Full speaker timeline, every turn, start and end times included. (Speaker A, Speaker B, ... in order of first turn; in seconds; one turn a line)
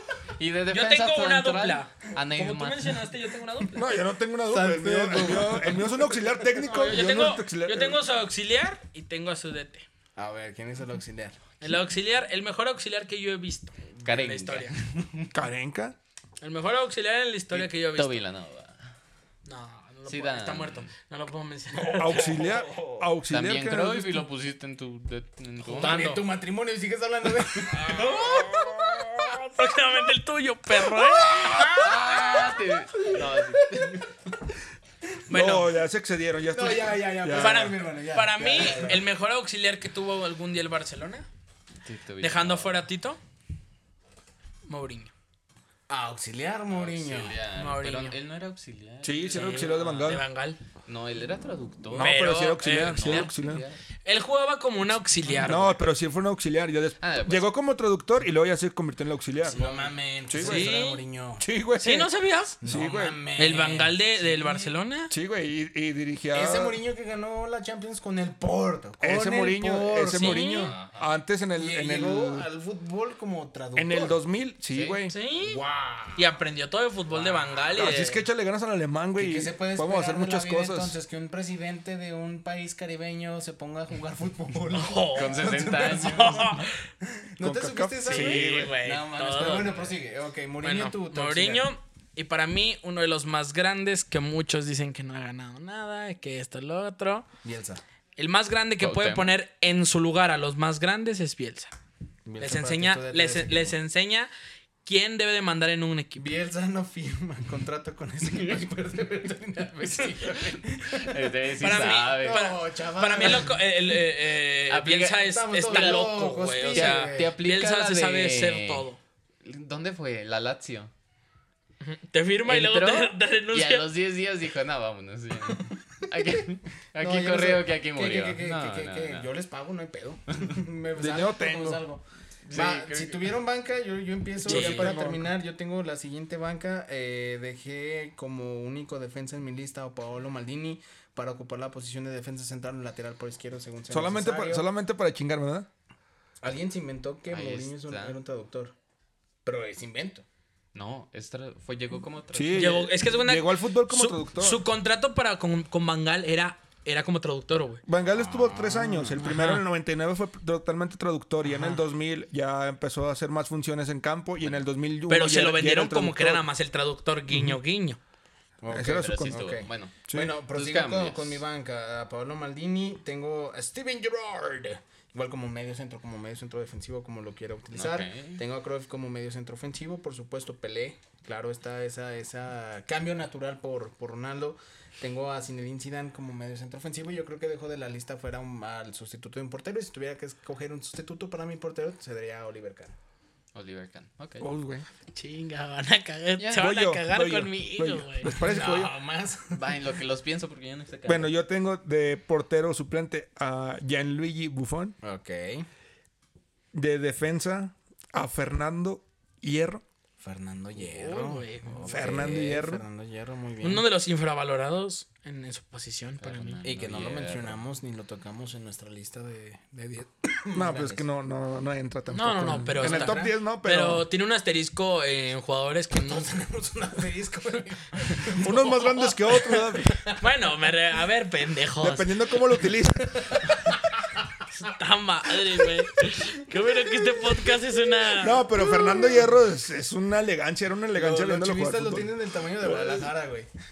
Speaker A: 0.4-3.1
Speaker B: 0.7-3.8
Speaker C: 3.7-8.0
Speaker D: 4.5-6.8
Speaker B: 6.7-9.9
Speaker D: 10.2-11.4
Speaker B: 11.6-14.8
Speaker A: 14.0-14.9
Speaker C: 15.3-16.0
Speaker B: 16.4-18.2
Speaker A: 17.5-18.9
Speaker B: 19.5-22.3
Speaker A: 20.1-20.9
Speaker D: 21.8-23.1
Speaker C: 21.9-24.3
Speaker A: 23.3-26.2
Speaker B: 25.6-26.2
Speaker D: 25.7-28.7
Speaker B: 27.9-28.5
Speaker C: 28.9-29.4
Speaker B: 29.6-32.0
Speaker D: 31.4-32.5
Speaker A: 31.6-34.1
Speaker D: 33.0-34.1
Speaker C: 35.3-37.7
Speaker B: 35.3-35.7
Speaker D: 36.5-39.0
Speaker B: 37.3-41.3
Speaker A: 41.8-42.8
Speaker B: 42.2-43.2
Speaker B: 44.7-45.1
Speaker D: 45.9-47.4
Speaker A: 46.7-50.2
Speaker B: 47.5-48.2
Speaker C: 49.0-50.2
Speaker B: 49.3-50.6
Speaker A: 50.9-53.8
Speaker C: 51.9-53.6
Speaker B: 52.0-53.3
Speaker B: 54.0-55.8
Speaker C: 55.4-59.6
Speaker A: 57.0-57.5
Speaker D: 59.4-61.4
Speaker A: 59.5-59.9
Speaker C: 60.3-60.8
Speaker B: 60.4-61.0
Speaker C: 61.4-62.1
Speaker B: 61.8-62.6
Speaker D: 62.6-64.7
Speaker C: 62.6-63.2
Speaker B: 63.4-65.1
Speaker C: 65.1-66.8
Speaker D: 66.3-70.7
Speaker C: 69.0-72.5
Speaker B: 70.2-70.7
Speaker A: 70.4-71.0
Speaker D: 71.6-74.2
Speaker C: 73.8-75.1
Speaker A: 74.7-75.0
Speaker B: 75.1-75.6
Speaker D: 75.4-76.3
Speaker B: 76.2-78.2
Speaker D: 77.1-77.7
Speaker C: 77.8-81.0
Speaker D: 79.2-91.7
Speaker B: 84.7-86.8
Speaker A: 85.1-86.5
Speaker C: 87.4-88.8
Speaker B: 88.1-89.9
Speaker A: 89.5-89.8
Speaker B: 90.6-97.3
Speaker D: 97.4-97.8
Speaker B: 98.2-101.7
Speaker A: 98.8-99.3
Speaker D: 102.2-103.8
Speaker B: 102.4-104.3
Speaker B: 104.8-106.3
Speaker D: 106.2-111.3
Speaker A: 110.0-112.5
Speaker B: 111.6-119.0
Speaker D: 112.2-113.6
Speaker A: 114.7-118.9
Speaker D: 115.2-117.3
Speaker A: 119.4-120.9
Speaker B: 121.8-123.9
Speaker A: 122.5-129.3
Speaker D: 126.2-126.4
Speaker D: 127.0-144.7
Speaker C: 131.0-131.8
Speaker A: 132.4-133.3
Speaker C: 134.4-135.3
Speaker B: 134.5-134.9
Speaker C: 143.9-145.7
Speaker D: 146.4-148.8
Speaker A: 147.3-148.2
Speaker D: 149.4-150.3
Speaker A: 150.7-152.8
Speaker C: 152.3-154.7
Speaker B: 152.5-157.8
Speaker C: 157.9-166.4
Speaker D: 158.1-159.3
Speaker B: 159.2-159.6
Speaker D: 161.5-161.8
Speaker B: 165.1-168.0
Speaker C: 167.3-167.6
Speaker D: 168.6-192.9
Speaker C: 168.7-169.4
Speaker A: 168.8-171.4
Speaker C: 170.1-170.3
Speaker A: 177.7-178.4
Speaker A: 193.5-194.5
Speaker C: 194.4-194.9
Speaker B: 195.1-198.3
Speaker A: 196.4-196.7
Speaker C: 196.5-198.9
Speaker D: 198.3-199.6
Speaker A: 199.5-201.3
Speaker C: 201.1-204.9
Speaker D: 205.0-205.7
Speaker C: 206.7-209.8
Speaker D: 210.2-213.9
Speaker B: 210.8-212.0
Speaker C: 211.8-212.8
Speaker B: 213.6-216.6
Speaker A: 216.2-217.6
Speaker D: 216.6-221.1
Speaker C: 220.5-224.1
Speaker B: 222.1-226.3
Speaker D: 222.4-223.3
Speaker D: 225.9-230.1
Speaker C: 228.3-230.0
Speaker B: 230.2-232.1
Speaker C: 231.8-233.4
Speaker D: 233.2-234.2
Speaker B: 234.6-238.4
Speaker D: 236.5-237.6
Speaker C: 238.2-243.1
Speaker D: 238.4-239.3
Speaker D: 240.9-243.5